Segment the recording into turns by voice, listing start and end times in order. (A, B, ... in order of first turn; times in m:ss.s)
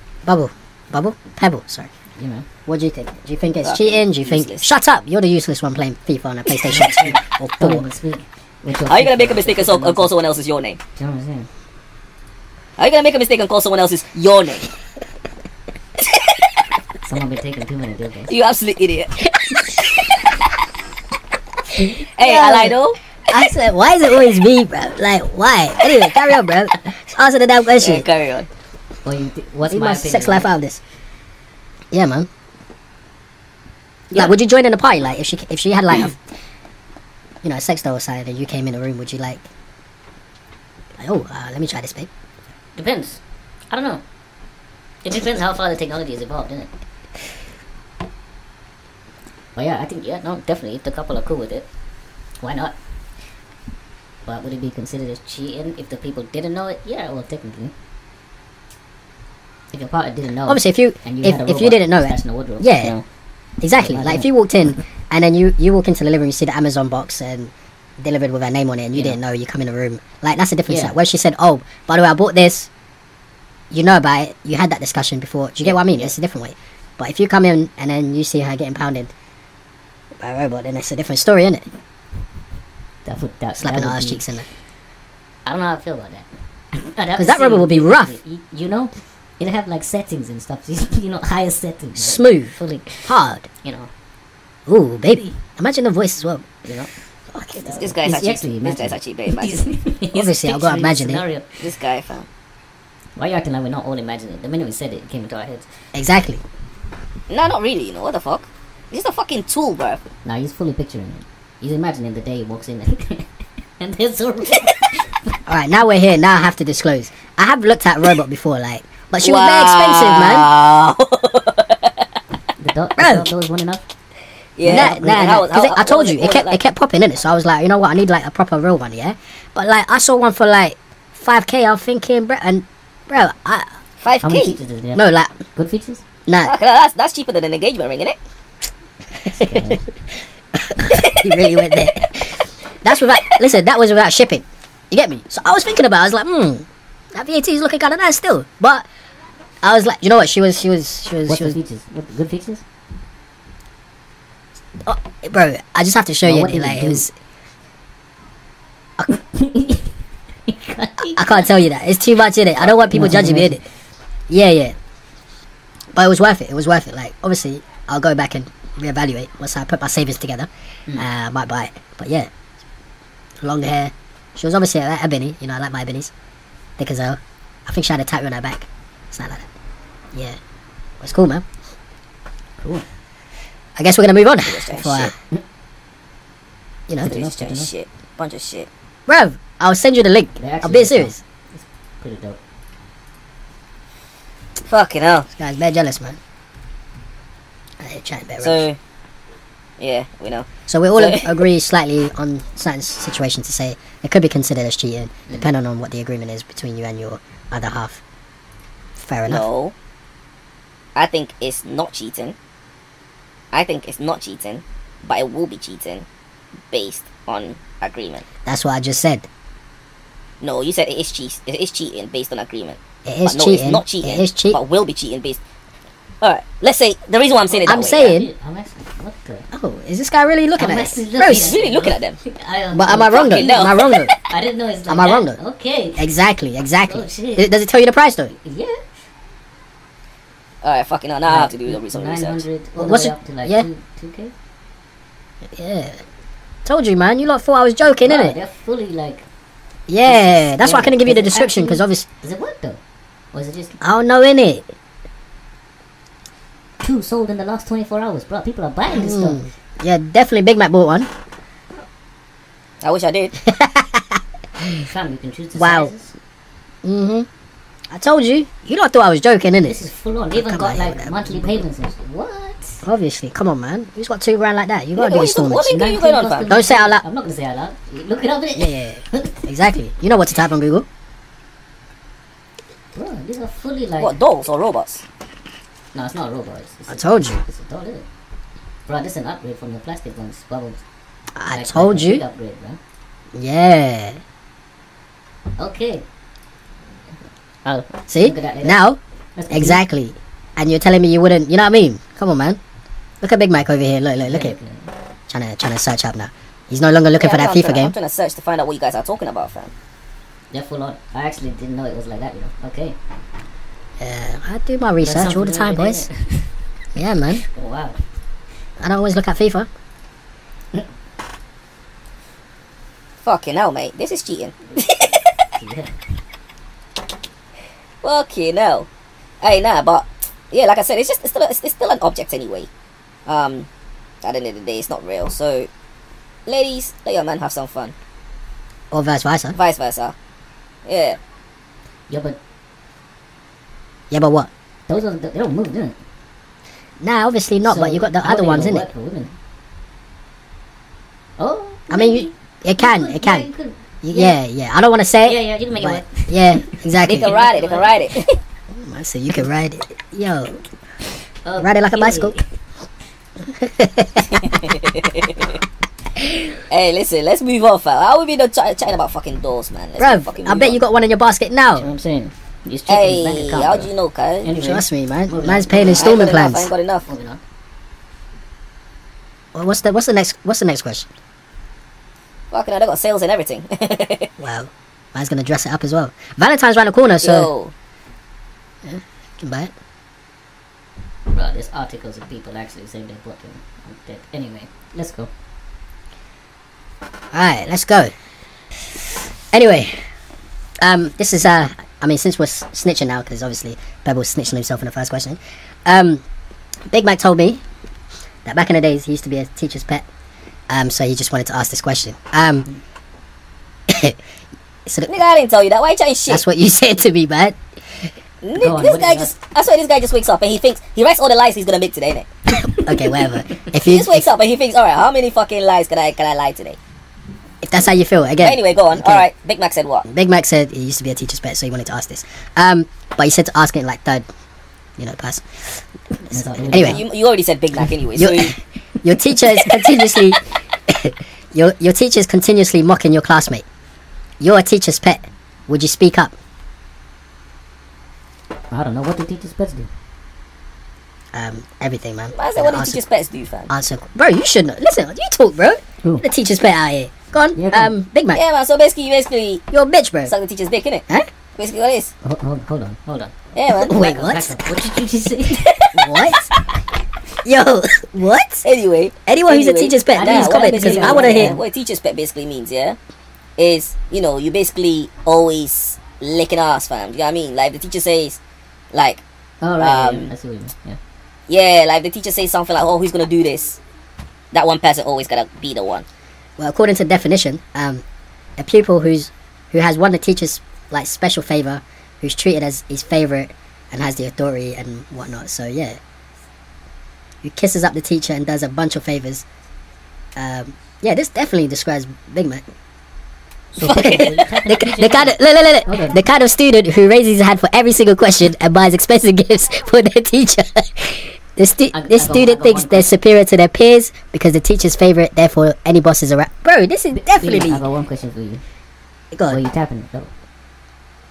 0:00.2-0:01.9 A
0:02.2-0:02.5 B
0:02.7-0:07.9 A
0:03.6-0:04.7 C
0:06.7-0:10.1 B
0:08.9-0:10.8 C
0:11.0-0:11.5 B
0:12.8-0:14.7 C
0:16.0-0:16.3 C
0:17.0-0:18.3 B
0:18.3-0:19.2 C
0:21.8-0:28.1 A
0:22.2-0:23.0 C
0:27.8-0:28.5 C
0:29.0-0:30.5 B
0:29.7-0:30.8 A
0:31.9-0:32.3 A
0:34.1-0:36.2 A
0:37.4-0:39.4 A
0:41.0-0:42.1 A
0:42.8-0:44.0 B
0:45.0-0:46.7 B
0:49.6-0:51.7 B
0:52.4-0:52.7 B
0:54.3-0:57.7 B
0:59.7-1:03.0 B
1:00.5-1:02.9 A
1:03.6-1:12.7 A
1:03.8-1:04.3 B
1:10.7-1:10.9 B
1:13.7-1:19.1 A
1:15.6-1:16.1 B
1:20.2-1:21.7 A
1:23.0-1:24.2 B
1:23.6-1:24.5 A
1:25.4-1:33.9 B
1:27.2-1:28.2 A
1:32.0-1:32.6 A
1:33.1-1:33.5 A
1:34.7-1:36.4 A
1:36.6-1:36.9 B
1:37.3-1:37.9 A
1:37.6-1:41.5 B
1:37.7-1:39.6 C
1:40.1-1:41.2 A
1:41.6-1:42.3 C
1:43.2-1:45.7 B
1:45.9-1:46.4 A
1:47.3-1:50.0 C
1:50.2-1:53.3 B
1:53.8-1:55.0 B
1:55.5-2:00.5 A
1:59.2-2:01.9 C
2:02.6-2:03.8 B
2:03.0-2:03.3 A
2:04.6-2:06.6 C
2:04.6-2:13.8 A
2:04.7-2:04.9 B
2:14.0-2:14.6 C
2:14.2-2:16.0 B
2:15.0-2:15.3 A
2:16.3-2:16.5 A
2:16.4-2:18.2 C
2:19.3-2:19.8 B
2:19.3-2:19.7 A
2:20.6-2:22.3 A
2:20.9-2:21.3 C
2:22.8-2:28.9 A
2:29.6-2:31.6 A
2:31.3-2:32.6 B
2:34.8-2:37.1 A
2:36.2-2:37.1 B
2:39.1-2:39.9 B
2:40.5-2:41.5 B
2:41.1-2:43.6 A
2:42.6-2:43.6 B
2:44.3-2:44.8 A
2:45.9-2:52.3 A
2:53.4-2:56.1 A
2:56.8-2:59.5 A
3:01.0-3:01.4 A
3:02.6-3:02.9 B
3:03.8-3:05.1 A
3:04.5-3:05.1 C
3:07.0-3:07.7 B
3:07.0-3:08.7 C
3:09.1-3:11.2 A
3:10.4-3:12.4 B
3:14.7-3:15.3 C
3:15.3-3:16.2 A
3:17.8-3:18.6 A
3:18.4-3:18.8 C
3:19.8-3:21.4 C
3:20.7-3:28.0 A
3:29.0-3:29.5 A
3:29.3-3:29.7 C
3:31.0-3:32.4 C
3:33.5-3:36.0 C
3:36.7-3:38.2 C
3:38.4-3:39.3 A
3:40.4-3:45.4 C
3:43.1-3:44.6 A
3:46.2-3:48.1 C
3:47.5-3:49.5 B
3:47.6-3:48.3 A
3:49.5-3:51.6 A
3:50.6-3:56.1 B
3:51.2-3:52.2 C
3:52.7-3:54.1 A
3:53.1-3:54.1 C
3:54.9-3:55.4 A
3:56.0-3:58.3 A
3:56.8-3:57.5 B
3:58.4-3:58.8 B
4:00.6-4:02.4 C
4:01.2-4:04.3 B
4:02.8-4:03.7 A
4:05.5-4:06.0 A
4:06.6-4:08.4 A
4:08.0-4:09.2 B
4:09.9-4:12.0 A
4:10.0-4:12.8 B
4:13.3-4:13.8 B
4:13.8-4:14.6 A
4:16.8-4:19.4 B
4:18.9-4:21.1 A
4:22.8-4:23.4 C
4:23.4-4:24.2 A
4:24.7-4:26.1 B
4:25.6-4:25.9 A
4:26.8-4:27.3 A
4:27.9-4:29.8 A
4:29.6-4:32.8 B
4:30.4-4:31.6 A
4:32.8-4:35.8 A
4:35.0-4:36.5 C
4:35.7-4:39.4 B
4:36.5-4:37.0 A
4:38.6-4:40.9 A
4:43.0-4:44.2 B
4:44.0-4:45.0 C
4:45.9-4:48.0 B
4:46.9-4:47.4 A
4:48.9-4:50.8 B
4:51.4-4:52.2 A
4:51.5-4:52.8 B
4:53.4-4:54.2 A
4:55.6-4:56.0 B
4:57.6-4:58.8 B
4:58.1-4:59.0 A
4:59.4-4:59.8 B
4:59.5-5:02.6 A
5:03.2-5:04.6 A
5:04.2-5:04.9 B
5:05.3-5:07.9 A
5:07.2-5:09.7 C
5:10.5-5:13.0 B
5:14.0-5:16.0 A
5:15.0-5:16.5 B
5:17.0-5:17.4 A
5:17.3-5:18.0 B
5:18.8-5:19.7 A
5:23.2-5:25.4 C
5:25.6-5:25.9 B
5:28.0-5:28.9 C
5:29.4-5:32.7 C
5:33.3-5:33.7 C
5:34.2-5:35.7 C
5:36.5-5:37.9 C
5:38.9-5:39.6 A
5:39.6-5:40.1 C
5:40.9-5:41.2 C
5:42.1-5:42.4 B
5:44.1-5:44.5 A
5:44.9-5:46.0 B
5:47.0-5:48.9 A
5:47.7-5:49.3 B
5:51.4-5:54.4 B
5:51.9-5:53.5 A
5:54.0-5:57.3 A
5:55.2-5:58.0 B
5:57.1-5:58.4 C
5:58.8-6:00.6 A
6:01.4-6:02.4 B
6:01.6-6:02.4 A
6:03.4-6:04.5 A
6:04.5-6:05.5 C
6:06.7-6:10.8 C
6:10.0-6:11.9 A
6:11.8-6:13.9 B
6:12.9-6:14.5 C
6:14.4-6:16.3 B
6:14.6-6:16.7 A
6:15.9-6:17.1 C
6:17.1-6:17.4 B
6:19.6-6:21.1 A
6:22.5-6:24.3 C
6:24.4-6:27.5 A
6:27.2-6:27.7 C
6:28.8-6:29.7 A
6:31.3-6:35.3 B
6:37.3-6:38.1 A
6:39.5-6:40.0 A
6:40.8-6:46.2 A
6:46.9-6:47.6 A
6:48.4-6:50.0 A
6:50.7-6:52.7 A
6:53.9-6:54.2 A
6:54.9-6:55.1 A
6:55.1-6:56.4 C
6:56.3-6:58.1 A
6:58.4-7:02.3 C
6:58.6-6:59.3 B
7:02.6-7:03.2 B
7:02.8-7:04.3 A
7:03.7-7:06.8 C
7:07.6-7:09.3 A
7:08.4-7:10.1 C
7:10.1-7:14.2 A
7:15.0-7:17.0 A
7:16.3-7:17.0 B
7:16.7-7:18.6 C
7:18.2-7:23.6 A
7:24.4-7:26.3 A
7:28.7-7:29.9 B
7:31.3-7:33.0 A
7:32.4-7:33.7 C
7:33.7-7:38.4 A
7:37.6-7:38.0 B
7:38.3-7:39.6 C
7:39.7-7:40.3 A
7:40.3-7:41.0 C
7:41.6-7:42.1 C
7:42.2-7:43.4 B
7:43.6-7:44.0 C
7:43.8-7:44.6 A
7:43.9-7:45.9 B
7:45.6-7:46.1 C
7:46.0-7:46.4 A
7:47.4-7:48.6 A
7:48.6-7:53.0 C
7:49.3-7:51.6 A
7:50.1-7:51.6 B
7:53.6-7:58.4 C
7:58.9-7:59.2 C
7:59.6-8:01.0 B
7:59.8-8:00.3 C
8:01.5-8:03.8 C
8:04.5-8:06.0 C
8:06.6-8:08.0 A
8:08.6-8:16.0 A
8:17.4-8:19.4 A
8:20.4-8:22.6 A
8:23.8-8:26.2 B
8:23.8-8:24.4 C
8:23.8-8:37.8 A
8:31.9-8:33.2 B
8:37.1-8:38.6 B
8:39.3-8:39.6 A
8:39.5-8:40.3 B